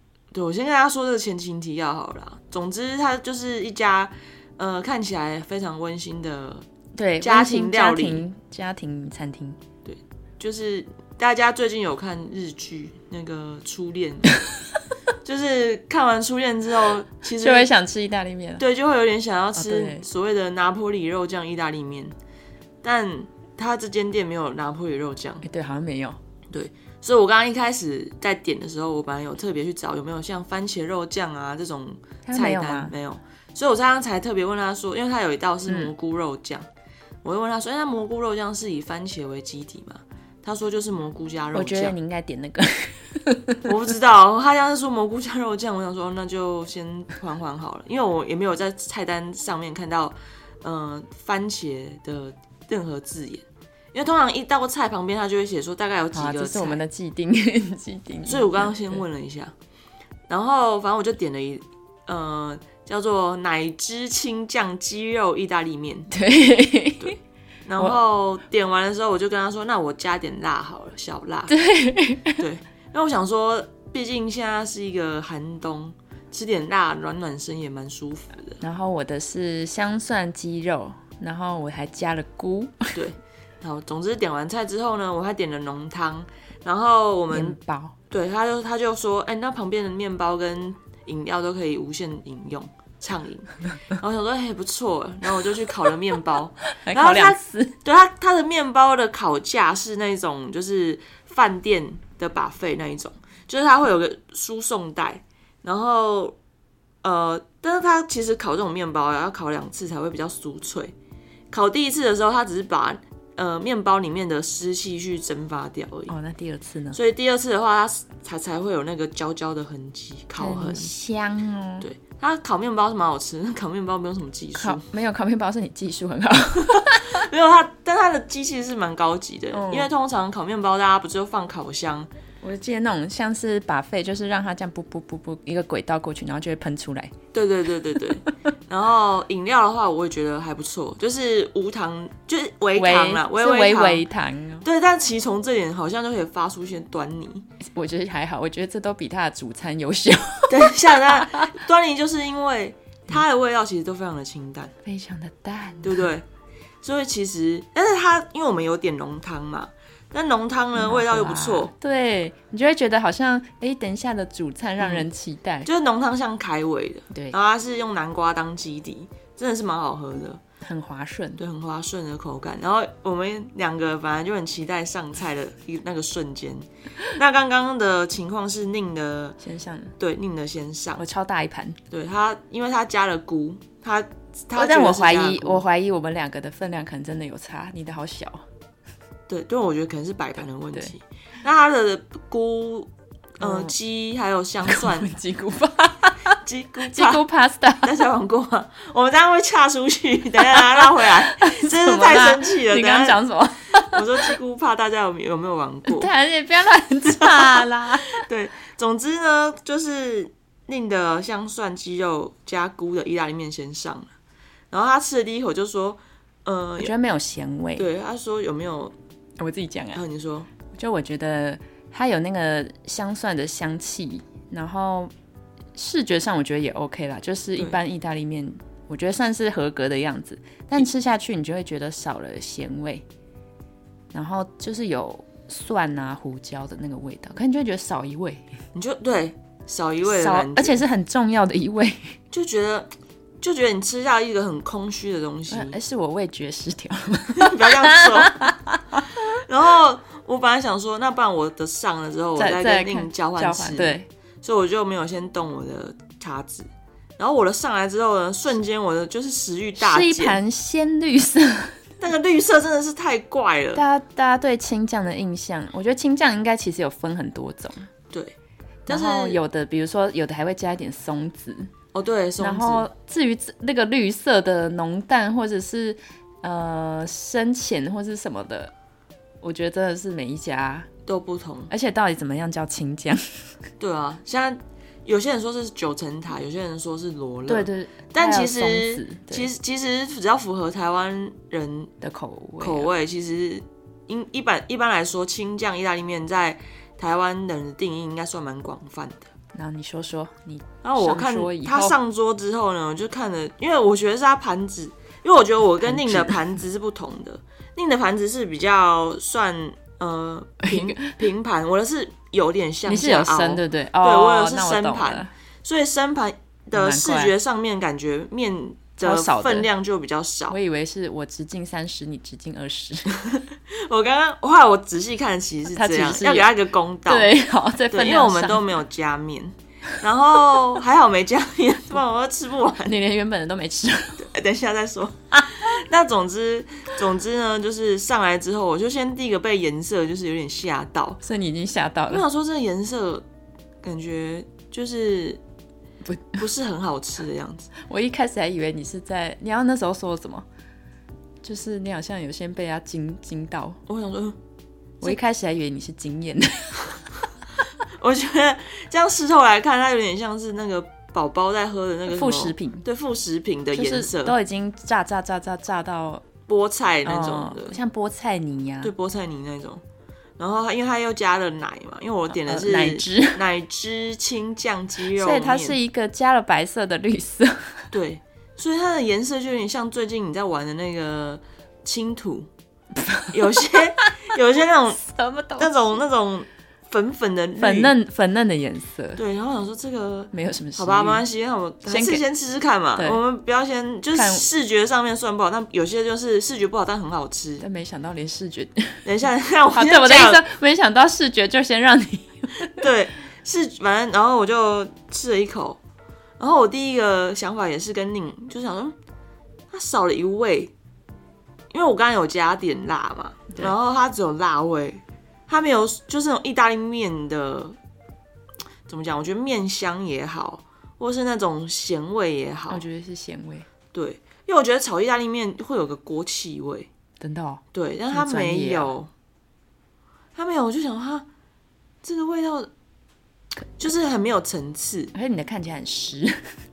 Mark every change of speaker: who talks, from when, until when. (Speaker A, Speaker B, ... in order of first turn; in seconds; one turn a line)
Speaker A: 0.3-6.6
Speaker B: 7.0-9.6
Speaker A: 7.2-8.2
Speaker A: 9.8-14.3
Speaker A: 15.2-17.7
Speaker B: 17.4-18.6
Speaker A: 18.6-22.1
Speaker B: 19.6-20.0
Speaker A: 22.8-25.4
Speaker B: 25.4-26.2
Speaker A: 26.5-36.7
Speaker B: 32.2-32.9
Speaker A: 37.2-41.9
Speaker B: 41.5-43.7
Speaker A: 43.6-56.8
Speaker B: 56.1-59.0
Speaker A: 58.2-59.5
Speaker A: 60.3-66.1
Speaker B: 66.1-67.2
Speaker A: 67.0-71.5
Speaker B: 71.5-72.4
Speaker A: 72.4-78.6
Speaker B: 78.6-82.9
Speaker A: 82.9-87.6
Speaker B: 87.3-87.9
Speaker A: 88.1-106.3
Speaker B: 96.7-97.7
Speaker A: 107.0-110.9
Speaker A: 111.5-116.1
Speaker B: 116.1-117.0
Speaker A: 116.9-120.9
Speaker B: 120.4-121.8
Speaker A: 121.8-124.8
Speaker B: 124.6-127.2
Speaker A: 126.6-132.1
Speaker B: 129.5-129.9
Speaker B: 132.4-137.1
Speaker A: 137.3-144.0
Speaker B: 142.8-144.7
Speaker A: 144.6-147.4
Speaker B: 147.6-151.5
Speaker A: 150.5-154.7
Speaker B: 154.8-156.0
Speaker A: 155.8-156.2
Speaker A: 156.8-161.7
Speaker B: 160.7-165.7
Speaker A: 164.8-165.1
Speaker A: 165.6-170.4
Speaker B: 167.1-167.3
Speaker B: 170.6-171.4
Speaker A: 171.4-179.4
Speaker B: 179.4-179.9
Speaker A: 180.0-181.0
Speaker B: 180.9-181.8
Speaker A: 181.9-185.6
Speaker B: 184.5-188.4
Speaker A: 189.3-195.1
Speaker B: 193.4-193.7
Speaker B: 194.6-197.9
Speaker A: 196.4-197.2
Speaker A: 197.8-203.2
Speaker B: 200.4-204.3
Speaker A: 203.8-206.1
Speaker B: 205.9-208.2
Speaker A: 207.1-214.1
Speaker A: 214.7-216.9
Speaker B: 216.8-217.9
Speaker A: 217.8-218.9
Speaker B: 219.4-220.0
Speaker A: 219.9-220.5
Speaker B: 220.7-225.1
Speaker B: 225.7-233.0
Speaker B: 234.1-238.5
Speaker A: 238.7-240.8
Speaker B: 240.1-242.2
Speaker A: 242.3-242.9
Speaker A: 243.4-245.8
Speaker B: 245.5-249.3
Speaker A: 247.3-248.5
Speaker A: 249.4-260.4
Speaker B: 252.4-254.1
Speaker B: 259.8-261.8
Speaker A: 262.0-263.8
Speaker B: 263.7-267.9
Speaker A: 268.1-268.3
Speaker A: 268.9-269.4
Speaker B: 268.9-271.7
Speaker A: 271.9-272.9
Speaker B: 272.4-278.7
Speaker B: 279.4-280.9
Speaker A: 281.1-281.7
Speaker B: 281.7-283.2
Speaker A: 283.8-291.9
Speaker B: 287.5-289.5
Speaker B: 292.0-292.9
Speaker A: 292.6-299.3
Speaker B: 299.5-301.9
Speaker A: 300.8-320.6
Speaker B: 305.8-306.4
Speaker B: 310.6-311.1
Speaker B: 312.9-315.3
Speaker B: 316.7-317.3
Speaker B: 319.0-319.7
Speaker B: 320.5-323.1
Speaker A: 323.1-327.3
Speaker B: 325.7-326.5
Speaker B: 327.1-328.6
Speaker A: 327.9-333.0
Speaker B: 332.9-334.2
Speaker A: 334.2-341.2
Speaker B: 341.2-342.2
Speaker A: 342.1-343.2
Speaker A: 343.8-345.4
Speaker B: 346.0-346.4
Speaker A: 346.4-347.7
Speaker B: 347.8-350.4
Speaker B: 351.4-353.8
Speaker A: 353.9-354.4
Speaker B: 355.0-357.0
Speaker A: 358.0-364.4
Speaker B: 362.1-362.8
Speaker B: 363.7-366.2
Speaker A: 366.5-367.8
Speaker B: 367.1-368.9
Speaker A: 368.8-369.8
Speaker A: 370.4-375.8
Speaker B: 372.4-373.4
Speaker B: 375.2-377.9
Speaker A: 377.9-382.5
Speaker B: 382.9-384.1
Speaker A: 383.3-385.0
Speaker B: 385.0-385.7
Speaker A: 385.6-387.9
Speaker B: 387.6-389.2
Speaker A: 389.2-397.6
Speaker B: 390.3-391.2
Speaker B: 391.9-392.2
Speaker B: 394.1-394.4
Speaker B: 397.6-399.0
Speaker A: 399.0-400.4
Speaker B: 399.7-402.8
Speaker A: 402.7-405.8
Speaker A: 406.4-408.9
Speaker A: 409.7-410.7
Speaker A: 411.7-417.8
Speaker A: 418.9-422.8
Speaker B: 422.7-423.7
Speaker A: 423.9-426.9
Speaker B: 427.2-428.9
Speaker A: 427.7-429.1
Speaker A: 430.3-431.3
Speaker A: 432.0-432.7
Speaker A: 433.8-435.1
Speaker B: 435.1-436.4